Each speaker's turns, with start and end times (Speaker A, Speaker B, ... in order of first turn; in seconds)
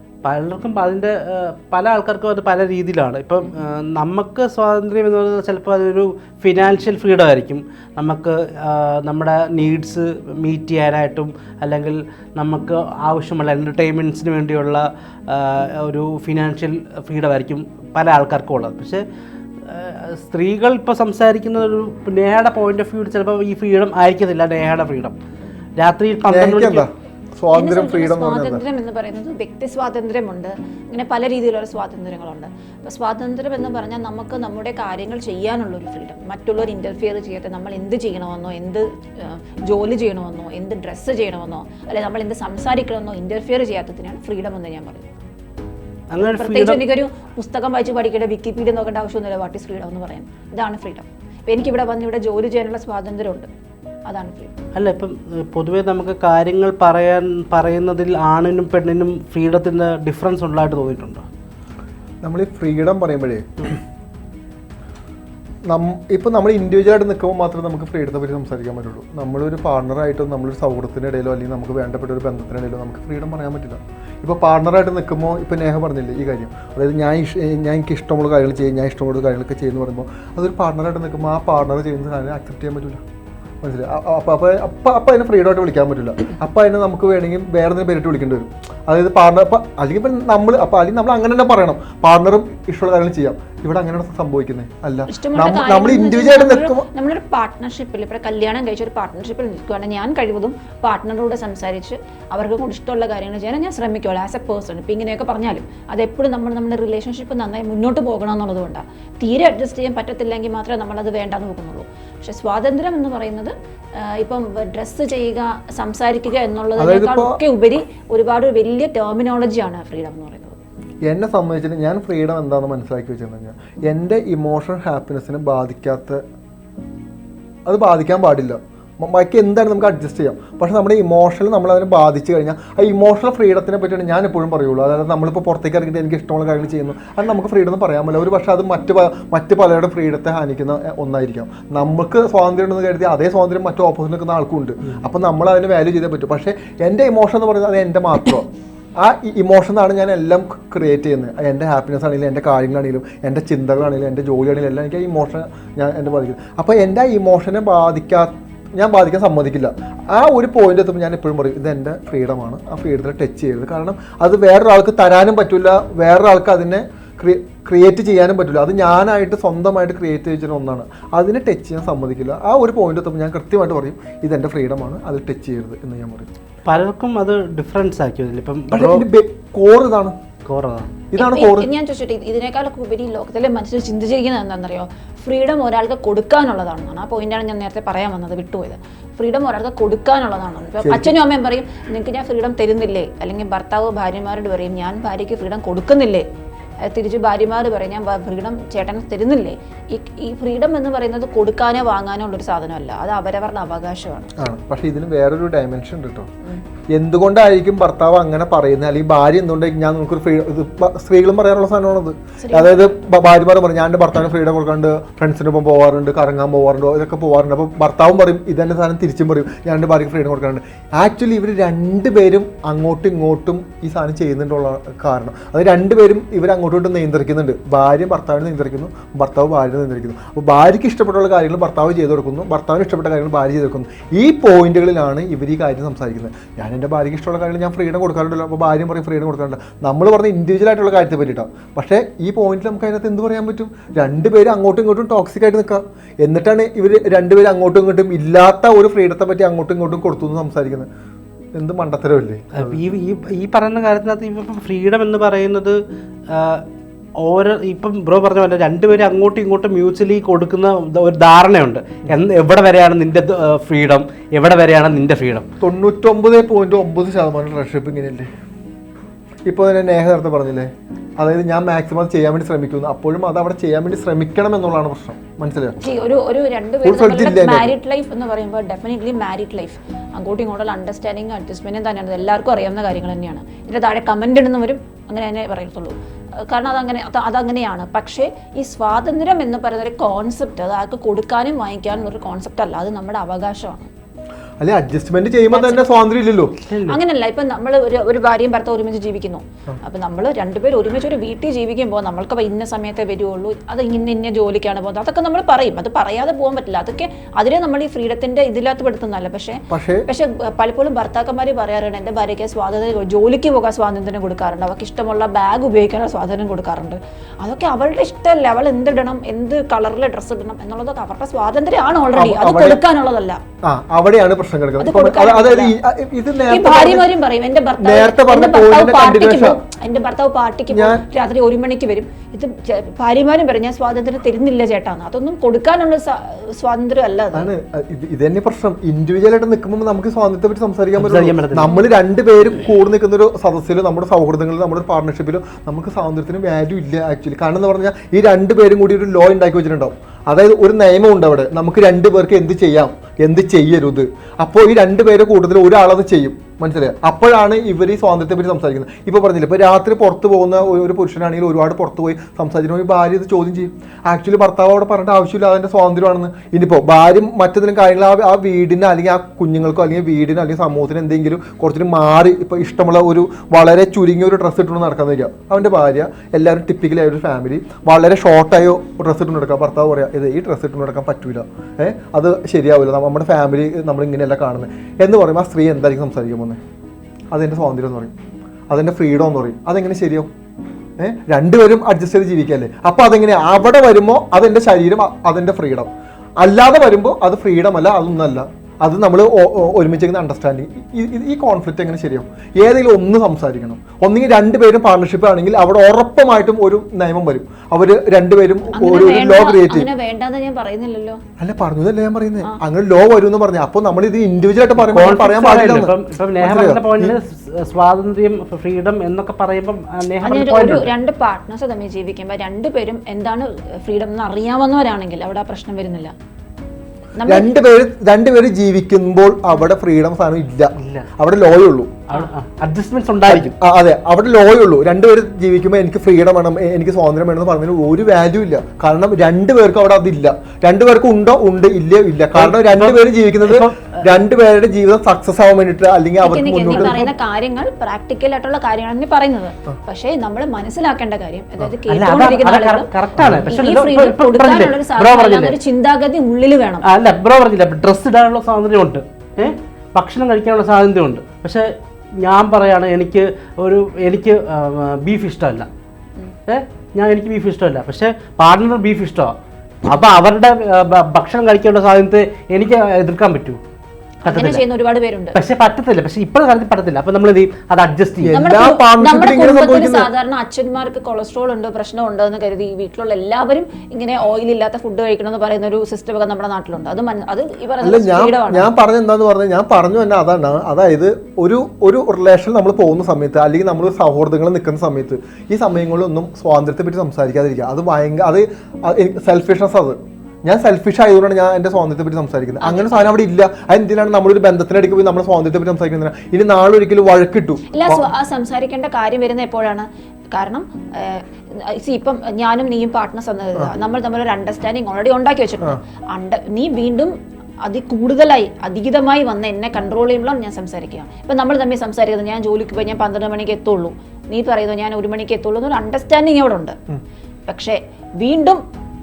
Speaker A: 0.2-19.0, 19.7-25.2, 25.8-26.9, 46.1-46.8, 54.8-61.3, 176.7-179.1, 180.5-180.9, 252.6-255.8, 256.3-256.6, 257.2-265.5, 296.7-297.0, 341.0-341.8, 414.8-420.9, 430.8-431.1, 432.1-433.5, 442.4-444.1, 451.9-455.6, 456.8-461.7, 462.2-465.7, 466.5-469.3, 469.9-473.6, 474.3-474.6, 475.3-478.3
Speaker B: 26.2-28.6, 62.2-63.8, 65.7-83.0, 83.6-96.9, 116.8-117.4, 121.0-126.2, 127.7-148.5, 149.0-176.3, 178.7-180.2, 181.1-181.7, 190.8-191.1, 204.4-206.3, 206.9-250.9, 251.6-252.8, 265.6-268.3, 269.5-275.8, 276.8-277.7, 294.6-296.6, 309.7-310.1, 322.1-322.8, 323.6-327.1, 327.8-329.6, 330.7-331.0, 337.3-386.6, 387.3-388.1, 388.7-390.3, 391.0-409.9, 411.4-417.2, 427.3-431.9, 433.3-447.1, 453.2-453.5, 478.2-480.1, 487.8-508.1
Speaker C: 27.5-45.1, 46.2-53.5, 54.1-54.5, 95.1-120.6, 181.2-196.3, 196.8-204.4, 212.4-212.9, 275.8-285.9, 286.5-293.9, 295.5-295.9, 296.9-323.4, 324.8-325.8, 326.5-337.5, 408.7-411.2, 420.2-426.1, 427.2-427.5, 446.2-456.9, 474.2-475.4, 478.3-488.7, 502.6-503.1, 507.7-517.1, 517.6-526.8, 527.5-528.6